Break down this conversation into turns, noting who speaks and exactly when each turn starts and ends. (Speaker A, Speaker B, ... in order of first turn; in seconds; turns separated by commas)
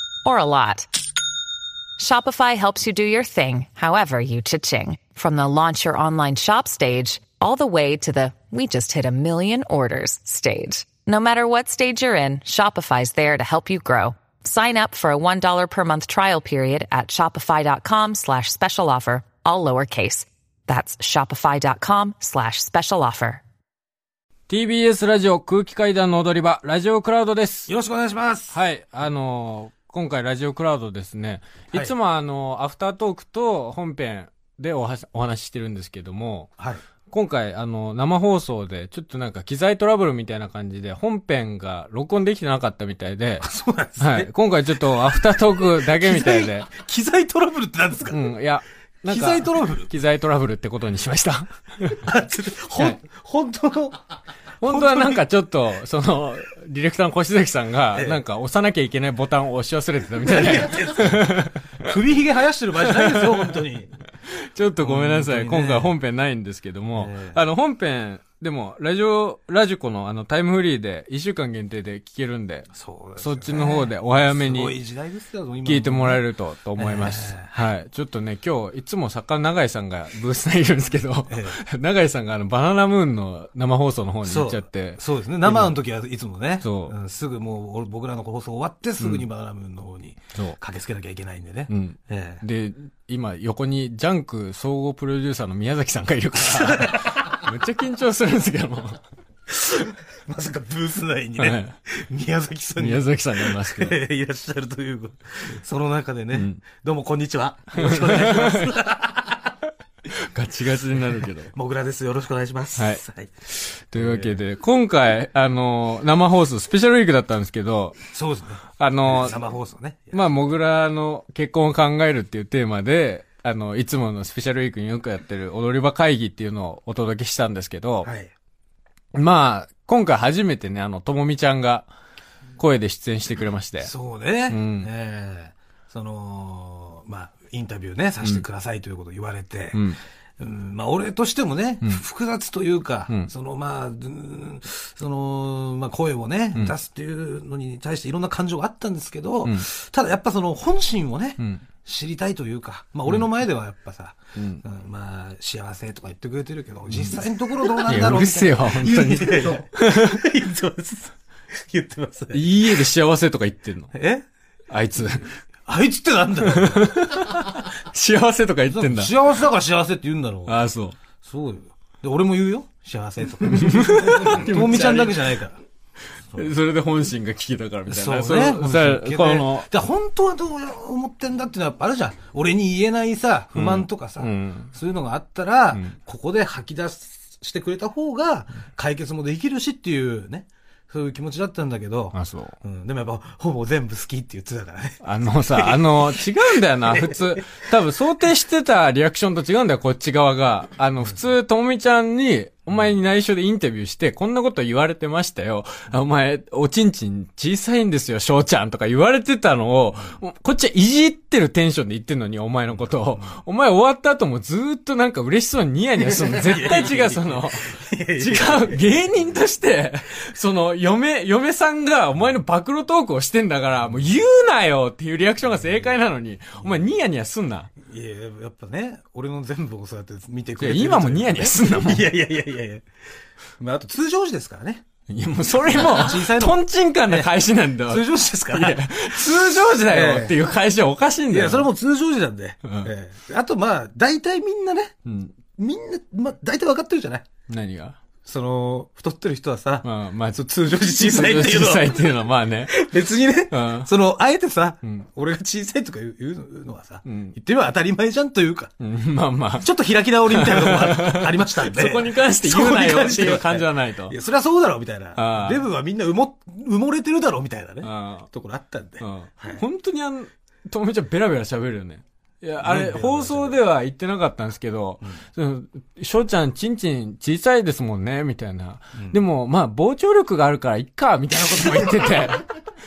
Speaker A: 0.2-0.9, Speaker A: 2.0-23.4, Speaker B: 24.5-27.7, Speaker C: 27.7-28.5, Speaker B: 28.5-36.5, Speaker B: 37.1-43.5, Speaker C: 43.4-44.3, Speaker B: 44.0-46.7, Speaker C: 45.3-48.2, Speaker B: 48.1-52.0, Speaker C: 49.0-49.9, Speaker C: 52.0-54.0, Speaker B: 54.6-61.9, Speaker C: 54.6-55.2, Speaker C: 60.2-64.0, Speaker B: 62.8-63.7, Speaker B: 64.3-74.7, Speaker C: 64.8-65.9, Speaker C: 67.0-67.4, Speaker C: 72.7-76.2, Speaker B: 75.6-85.8, Speaker C: 76.8-77.5, Speaker C: 81.3-81.6, Speaker C: 84.2-92.4, Speaker B: 86.6-86.9, Speaker B: 89.0-89.2, Speaker B: 91.7-99.0, Speaker C: 96.4-97.4, Speaker C: 99.5-109.5, Speaker B: 101.4-101.7, Speaker B: 102.8-104.0, Speaker B: 106.3-106.6, Speaker B: 107.7-108.8, Speaker B: 110.1-111.5, Speaker C: 111.5-113.3, Speaker B: 112.8-118.0, Speaker C: 113.9-114.4, Speaker C: 118.1-120.2, Speaker B: 118.8-119.4, Speaker B: 120.1-128.1, Speaker C: 128.0-128.3, Speaker B: 129.1-131.9, Speaker B: 132.6-133.9, Speaker C: 133.8-139.8, Speaker B: 134.5-134.9, Speaker B: 139.7-140.0, Speaker C: 140.4-162.9, Speaker B: 154.3-154.6, Speaker B: 156.9-160.2, Speaker B: 162.3-163.9, Speaker C: 163.9-164.2, Speaker B: 164.7-165.3, Speaker C: 165.7-167.0, Speaker B: 166.4-169.1, Speaker C: 168.7-170.6, Speaker B: 170.4-170.9, Speaker C: 171.2-175.6, Speaker B: 173.4-175.3, Speaker B: 176.3-179.7, Speaker C: 177.9-196.3, Speaker B: 183.5-184.7, Speaker B: 192.1-192.6, Speaker B: 195.0-227.7, Speaker C: 196.8-197.5, Speaker C: 213.1-213.4, Speaker C: 216.1-218.8, Speaker C: 227.8-232.8, Speaker B: 230.6-232.1, Speaker C: 233.6-234.8, Speaker B: 235.1-241.7, Speaker C: 235.7-237.3, Speaker C: 237.9-240.5, Speaker C: 241.3-244.9, Speaker B: 242.6-242.9, Speaker B: 245.1-245.3, Speaker C: 245.5-247.3, Speaker B: 247.5-248.0, Speaker C: 248.2-258.7, Speaker B: 249.8-252.8, Speaker B: 253.5-253.9, Speaker B: 257.1-257.3, Speaker B: 258.8-259.7, Speaker C: 259.6-269.6, Speaker B: 260.3-264.1, Speaker B: 265.1-265.6, Speaker B: 267.8-268.3, Speaker B: 269.0-282.5, Speaker C: 272.6-273.6, Speaker C: 281.5-282.3